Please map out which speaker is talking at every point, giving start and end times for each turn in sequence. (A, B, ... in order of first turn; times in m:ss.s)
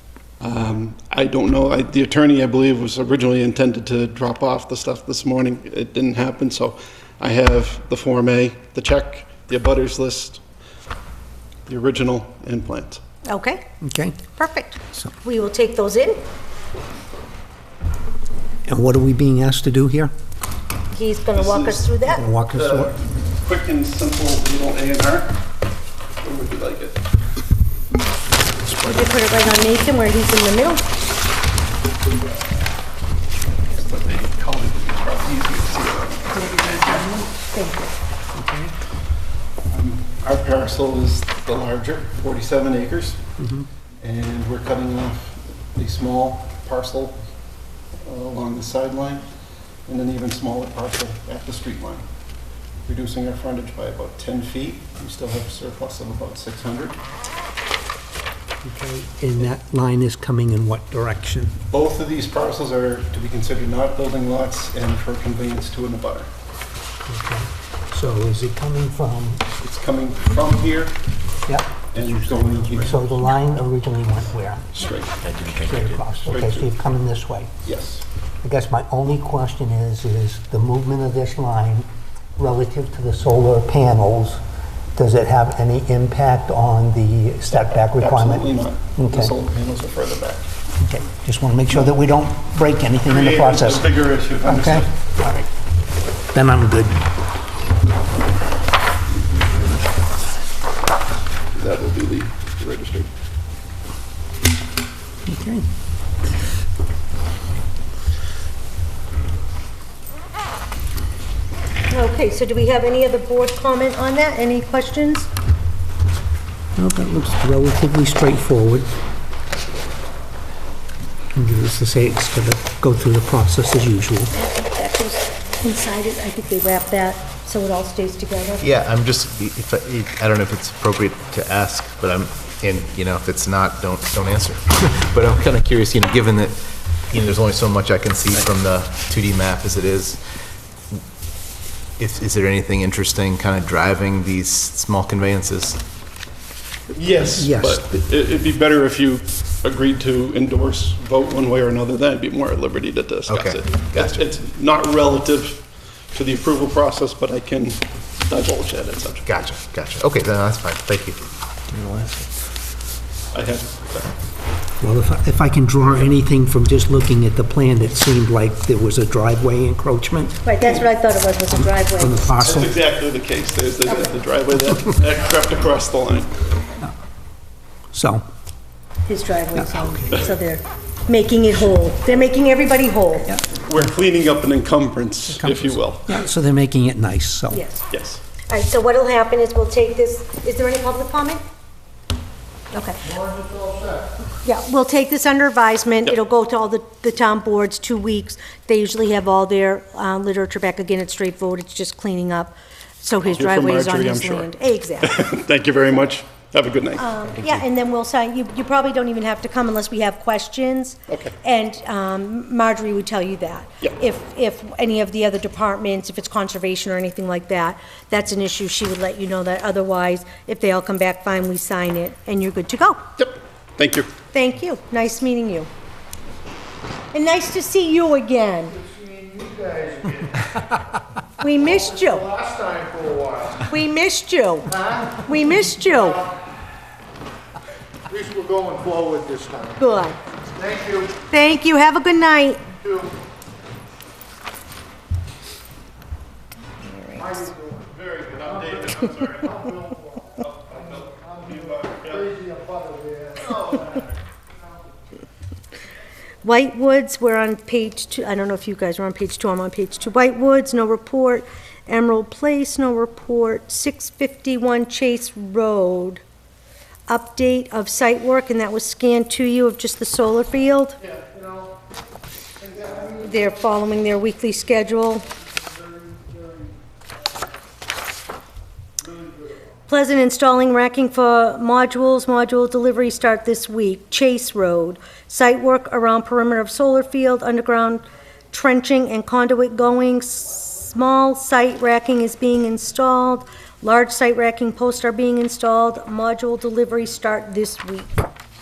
0:00.4-0:10.4 A
0:11.7-0:13.0 A
0:13.2-0:13.6 B
0:13.8-0:14.2 C
0:14.3-0:16.2 B
0:18.6-0:20.1 C
0:20.9-0:22.2 B
0:21.3-0:21.9 A
0:22.0-0:22.9 C
0:22.5-0:25.4 A
0:26.2-0:27.0 A
0:28.7-0:30.8 B
0:33.6-0:37.1 A
0:36.3-0:37.9 B
0:38.3-0:38.7 C
0:39.7-0:43.2 A
0:43.4-0:43.7 C
0:44.0-0:47.2 A
0:48.0-0:49.2 A
0:49.9-0:52.0 A
0:52.8-0:57.0 A
0:58.6-1:01.6 C
1:01.6-1:06.3 A
1:07.0-1:09.5 C
1:09.6-1:10.9 A
1:11.5-1:14.8 C
1:11.9-1:13.2 A
1:14.7-1:15.3 A
1:15.5-1:17.5 C
1:16.2-1:16.7 A
1:17.6-1:18.0 A
1:18.4-1:21.8 C
1:22.4-1:24.4 C
1:24.9-1:29.3 C
1:27.5-1:30.5 A
1:30.8-1:33.9 C
1:31.7-1:32.0 A
1:33.0-1:34.9 A
1:34.4-1:35.4 C
1:36.3-1:37.1 C
1:41.5-1:43.1 A
1:45.2-1:45.6 C
1:51.9-1:55.3 B
1:56.8-1:58.9 C
2:01.3-2:04.3 C
2:04.3-2:08.7 B
2:08.6-2:20.2 D
2:22.0-2:25.8 D
2:26.9-2:39.3 A
2:27.3-2:27.9 C
2:33.3-2:34.2 D
2:39.2-2:41.2 D
2:43.3-2:44.1 A
2:44.8-2:50.4 C
2:50.4-2:52.2 B
2:51.6-2:52.8 C
2:52.4-2:56.4 A
2:57.9-2:58.2 C
2:59.1-3:03.3 B
2:59.5-3:00.1 C
3:03.5-3:06.2 A
3:05.3-3:07.6 C
3:07.5-3:07.8 B
3:07.9-3:08.2 A
3:08.5-3:11.4 B
3:12.7-3:13.1 B
3:13.4-3:13.9 E
3:14.4-3:25.2 B
3:23.2-3:27.0 A
3:27.0-3:43.0 B
3:31.1-3:31.3 A
3:43.2-3:44.1 A
3:44.3-3:45.7 B
3:47.1-3:48.8 B
3:48.9-3:50.3 E
3:51.4-3:52.4 B
3:52.4-3:53.5 E
3:53.5-3:56.3 B
3:58.1-3:59.7 E
3:59.8-4:00.2 B
4:00.6-4:01.0 E
4:01.1-4:02.6 B
4:06.8-4:07.6 B
4:07.9-4:09.8 A
4:10.4-4:12.6 A
4:12.8-4:13.3 E
4:13.5-4:14.0 A
4:16.4-4:26.2 B
4:27.1-4:31.0 B
4:32.8-4:35.2 B
4:36.1-4:36.6 E
4:39.9-4:58.2 B